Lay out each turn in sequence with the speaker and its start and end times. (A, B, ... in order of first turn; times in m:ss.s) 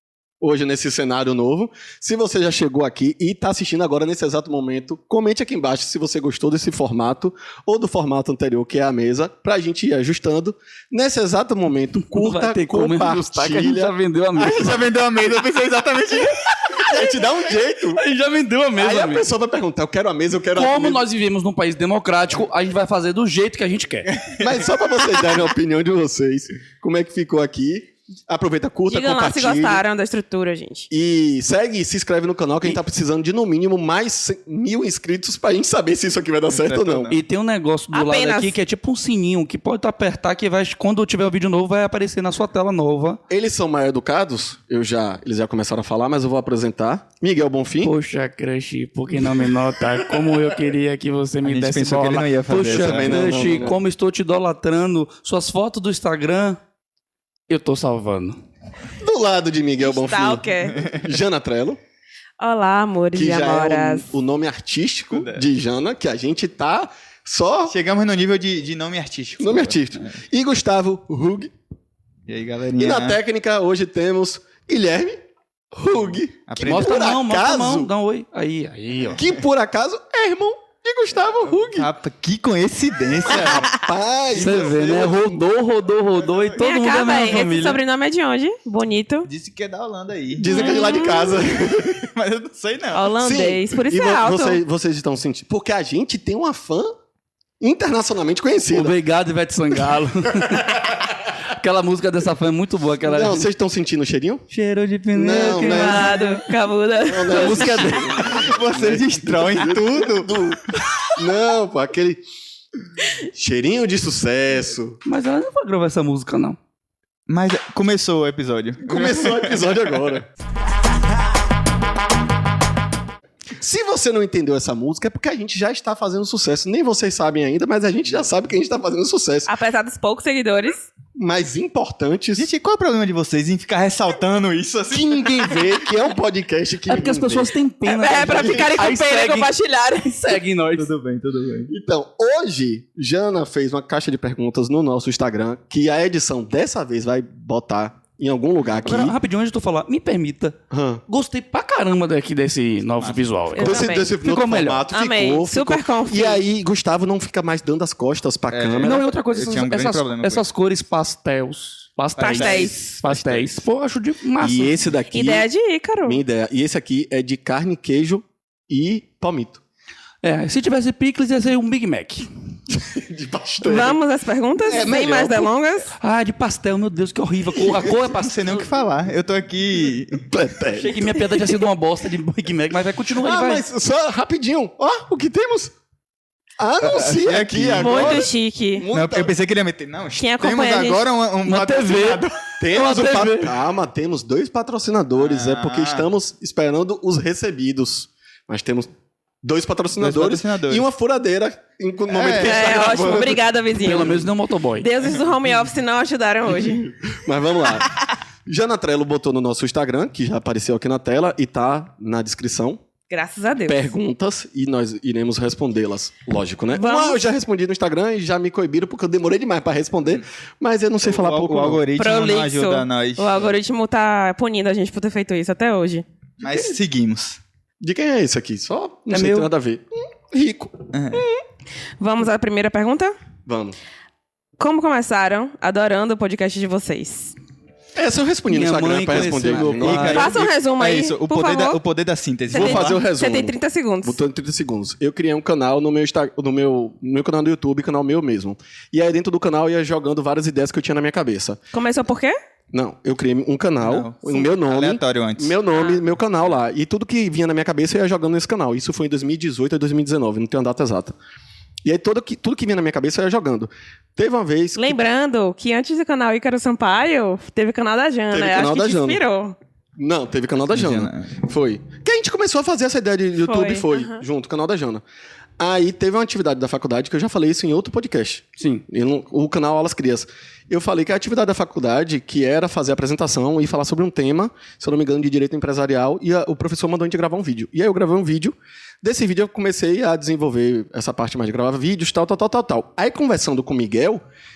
0:00.4-0:14.0 A
0:12.1-0:14.8 B
0:14.4-0:17.0 C
0:16.8-0:18.0 A
0:17.9-0:19.3 B
0:18.8-0:21.0 A
0:20.5-0:24.1 B
0:24.1-0:24.7 C
0:24.4-0:29.8 A
0:28.9-0:30.9 D
0:30.9-0:37.1 A
0:36.5-0:37.2 C
0:37.1-0:43.2 B
0:37.9-0:38.6 D
0:43.3-0:47.9 A
0:47.8-0:56.6 B
0:51.4-0:53.8 C
0:52.5-0:53.8 A
0:57.5-0:58.4 B
0:59.0-1:01.8 A
0:59.8-1:00.8 D
1:00.8-1:01.1 C
1:02.4-1:04.1 D
1:03.1-1:07.8 A
1:05.1-1:05.4 C
1:07.7-1:10.2 C
1:09.4-1:11.5 A
1:12.3-1:13.2 C
1:12.8-1:17.9 A
1:16.5-1:17.1 C
1:16.6-1:19.2 B
1:19.2-1:21.9 A
1:21.6-1:23.7 C
1:23.2-1:25.4 A
1:24.3-1:27.8 B
1:26.2-1:26.6 C
1:26.6-1:29.3 D
1:29.3-1:33.1 C
1:30.4-1:32.1 A
1:30.5-1:31.4 D
1:32.9-1:34.6 D
1:33.2-1:36.9 A
1:37.6-1:39.0 A
1:38.7-1:43.5 B
1:43.0-1:44.4 A
1:44.5-1:46.4 B
1:45.1-1:46.2 A
1:45.3-1:48.0 D
1:47.1-1:52.2 A
1:47.3-1:48.2 B
1:48.2-1:50.6 C
1:53.3-1:55.0 A
1:55.0-1:56.6 B
1:57.3-1:59.7 C
1:58.8-2:00.3 A
2:03.6-2:09.5 A
2:09.5-2:10.9 D
2:11.2-2:12.5 A
2:12.4-2:15.7 C
2:14.9-2:17.6 A
2:16.9-2:20.9 B
2:17.9-2:20.2 D
2:18.2-2:18.7 A
2:20.8-2:21.7 C
2:21.7-2:29.2 A
2:28.8-2:34.8 B
2:30.7-2:31.0 A
2:33.0-2:33.2 C
2:33.6-2:39.1 A
2:33.6-2:34.1 D
2:34.9-2:36.4 D
2:38.5-2:40.4 C
2:38.8-2:44.8 B
2:42.2-2:42.8 D
2:42.2-2:43.5 C
2:44.4-2:45.5 A
2:45.1-2:46.2 D
2:46.0-2:49.6 A
2:50.2-2:52.3 B
2:52.7-2:54.0 A
2:53.6-2:55.9 D
2:54.6-2:55.5 A
2:56.0-2:58.7 B
2:58.1-3:00.3 C
3:00.3-3:01.4 A
3:00.7-3:03.6 B
3:03.2-3:05.7 A
3:06.6-3:09.3 A
3:06.8-3:08.3 C
3:07.8-3:08.9 D
3:08.9-3:12.6 C
3:10.2-3:11.0 D
3:11.4-3:13.6 B
3:12.6-3:18.9 A
3:15.2-3:16.1 C
3:19.4-3:23.4 A
3:20.0-3:20.8 C
3:22.1-3:23.3 C
3:22.4-3:24.3 D
3:23.7-3:24.9 B
3:24.8-3:26.9 D
3:27.0-3:27.9 A
3:28.5-3:32.8 A
3:33.1-3:33.9 D
3:33.7-3:41.8 A
3:36.8-3:37.2 D
3:41.0-3:43.4 C
3:42.0-3:46.0 D
3:46.4-3:47.4 C
3:46.4-3:46.7 A
3:47.8-3:51.2 A
3:49.1-3:49.5 B
3:50.9-3:51.2 C
3:52.0-3:53.2 D
3:53.5-3:53.8 A
3:54.6-3:57.4 D
3:58.0-4:00.3 A
3:58.5-4:00.4 B
3:59.5-4:03.0 C
4:00.1-4:01.8 D
4:02.5-4:04.2 D
4:02.5-4:11.6 A
4:11.7-4:12.4 D
4:12.7-4:21.2 A
4:13.8-4:15.6 C
4:15.7-4:16.0 D
4:21.8-4:25.0 A
4:24.8-4:29.6 D
4:28.3-4:29.2 A
4:30.0-4:35.0 A
4:30.7-4:31.3 C
4:33.4-4:34.2 D
4:35.6-4:54.2 A
4:38.6-4:38.8 B